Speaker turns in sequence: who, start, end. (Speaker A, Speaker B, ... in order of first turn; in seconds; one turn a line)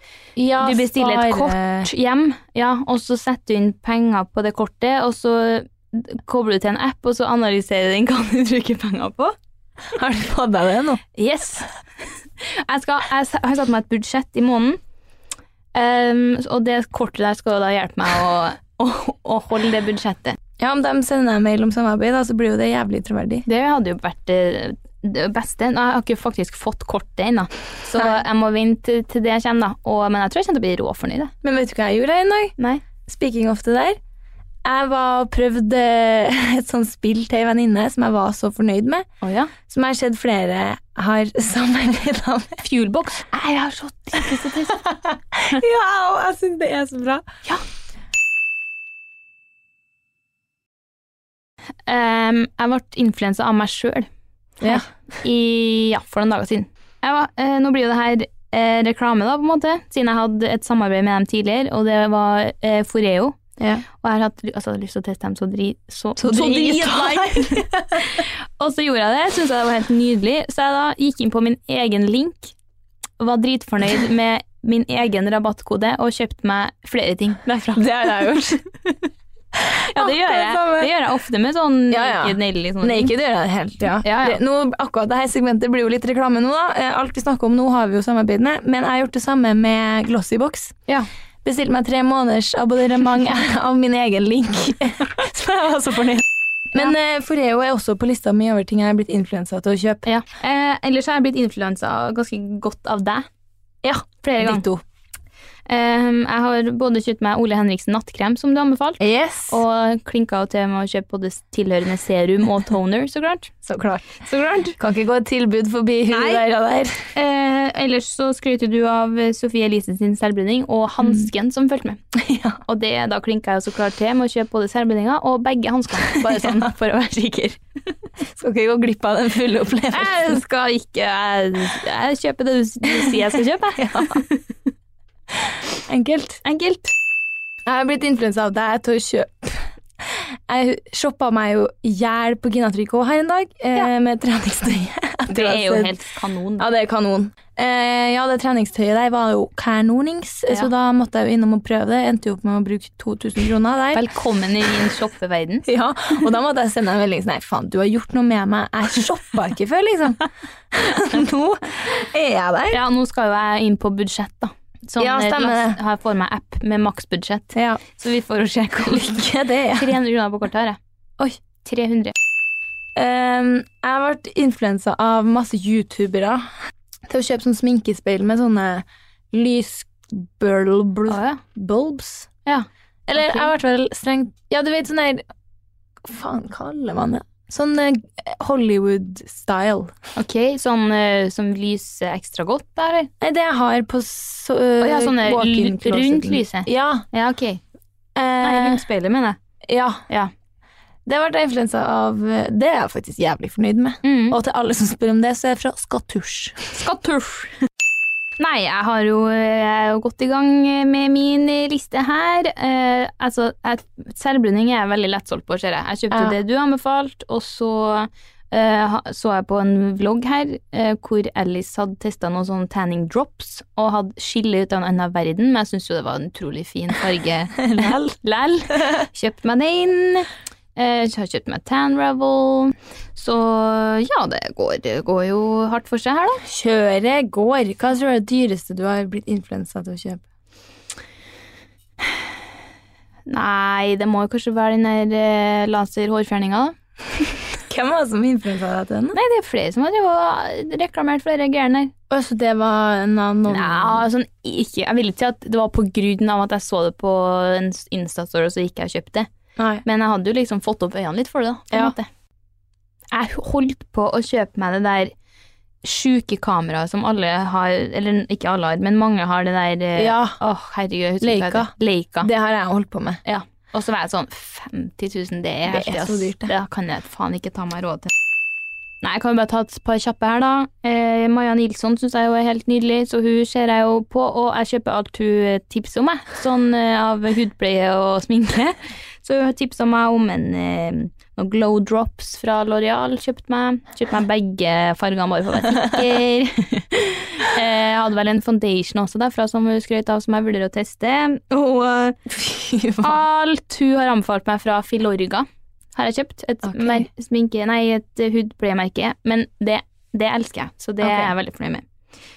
Speaker A: 0.3-1.9
Speaker B: 0.6-9.3
Speaker A: 9.9-11.0
Speaker B: 11.2-11.7
Speaker B: 12.4-14.8
Speaker B: 15.7-20.4
Speaker A: 20.6-23.4
Speaker B: 23.4-31.3
Speaker A: 31.4-34.0
Speaker B: 32.6-32.8
Speaker A: 34.6-39.1
Speaker B: 39.2-39.5
Speaker A: 39.6-42.6
Speaker B: 42.6-44.8
Speaker A: 43.5-47.2
Speaker B: 51.9-54.1
Speaker A: 54.6-54.9
Speaker B: 54.6-63.4
Speaker A: 63.6-63.8
Speaker B: 63.9-72.5
Speaker A: 66.2-68.0
Speaker B: 73.2-77.8
Speaker A: 77.7-78.6
Speaker A: 79.6-80.9
Speaker B: 79.9-83.1
Speaker A: 81.9-90.8
Speaker B: 84.0-84.4
Speaker A: 91.4-100.0
Speaker B: 100.0-103.3
Speaker A: 103.8-104.8
Speaker B: 104.2-104.7
Speaker B: 105.7-113.5
Speaker A: 109.0-109.6
Speaker A: 113.6-117.0
Speaker B: 114.2-114.8
Speaker B: 116.1-116.4
Speaker B: 117.1-122.0
Speaker A: 121.0-121.3
Speaker A: 122.1-122.6
Speaker B: 122.7-127.6
Speaker A: 126.1-126.7
Speaker A: 128.3-130.4
Speaker B: 129.9-134.4
Speaker A: 132.9-134.2
Speaker A: 135.3-136.4
Speaker B: 136.4-136.9
Speaker A: 137.7-146.0
Speaker B: 145.3-146.7
Speaker A: 146.6-154.1
Speaker B: 153.9-155.6
Speaker A: 155.7-162.8
Speaker B: 162.7-169.2
Speaker A: 165.0-165.8
Speaker A: 167.5-167.8
Speaker A: 168.8-169.9
Speaker B: 169.7-170.8
Speaker B: 171.6-172.1
Speaker A: 172.9-176.5
Speaker A: 177.1-182.3
Speaker B: 181.1-181.4
Speaker B: 182.4-183.5
Speaker A: 183.1-185.2
Speaker A: 186.0-189.9
Speaker B: 190.2-193.1
Speaker A: 193.2-197.0
Speaker B: 194.8-197.6
Speaker A: 198.2-198.8
Speaker B: 198.4-199.4
Speaker A: 199.7-200.0
Speaker A: 201.0-206.7
Speaker B: 204.0-204.4
Speaker B: 206.7-207.6
Speaker B: 208.4-236.4
Speaker A: 216.1-216.4
Speaker A: 227.6-228.1
Speaker A: 236.4-240.2
Speaker B: 243.3-246.8
Speaker A: 247.7-249.2
Speaker B: 249.1-251.9
Speaker A: 252.1-254.1
Speaker B: 253.5-259.3
Speaker A: 259.6-259.8
Speaker B: 259.8-262.1
Speaker A: 261.7-261.9
Speaker B: 263.1-265.1
Speaker B: 265.8-272.3
Speaker A: 269.9-270.4
Speaker A: 271.2-273.2
Speaker B: 273.2-278.1
Speaker A: 275.7-276.5
Speaker B: 279.0-302.1
Speaker A: 302.3-303.2
Speaker B: 303.0-311.8
Speaker A: 306.6-307.1
Speaker A: 311.0-311.3